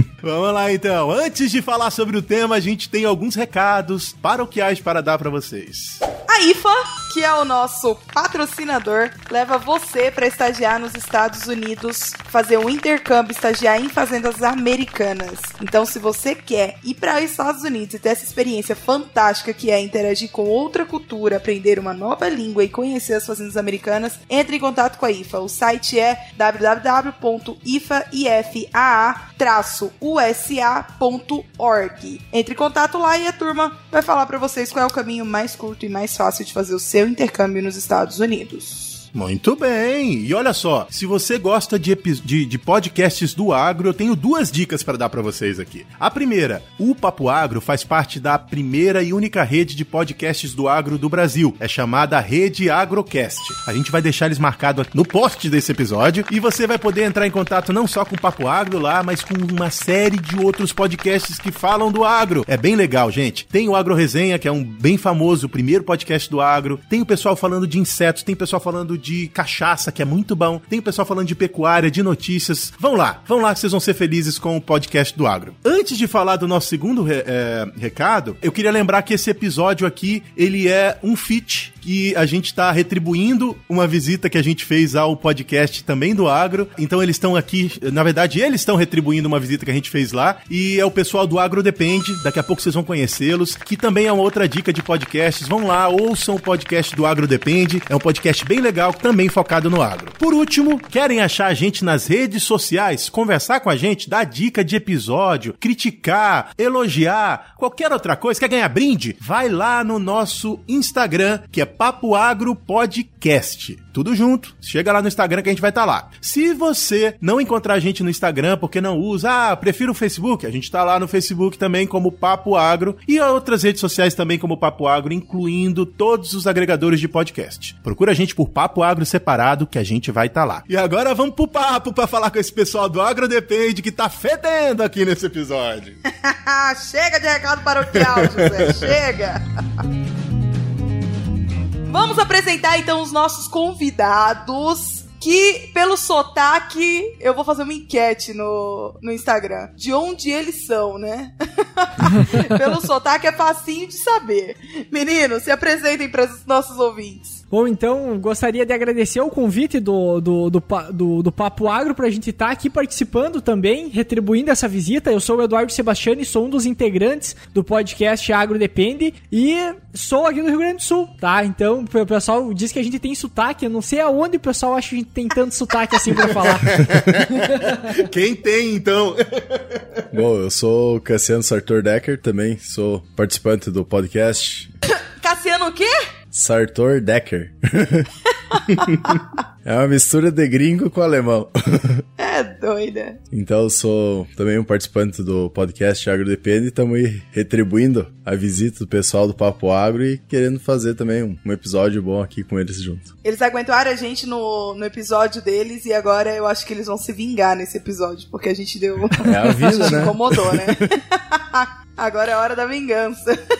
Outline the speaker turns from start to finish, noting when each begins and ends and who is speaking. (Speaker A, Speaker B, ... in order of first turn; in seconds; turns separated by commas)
Speaker A: 0.2-6.0, Speaker B: 6.3-39.0, Speaker A: 39.1-136.0, Speaker B: 136.1-139.4, Speaker A: 138.0-138.9, Speaker B: 141.9-157.4, Speaker C: 157.5-177.9, Speaker A: 176.7-179.8, Speaker D: 180.1-184.7, Speaker B: 185.2-186.0, Speaker D: 186.3-188.1, Speaker B: 188.5-189.2, Speaker D: 188.7-192.1, Speaker B: 192.2-193.2, Speaker D: 193.3-203.1, Speaker B: 203.2-213.4, Speaker D: 209.2-210.9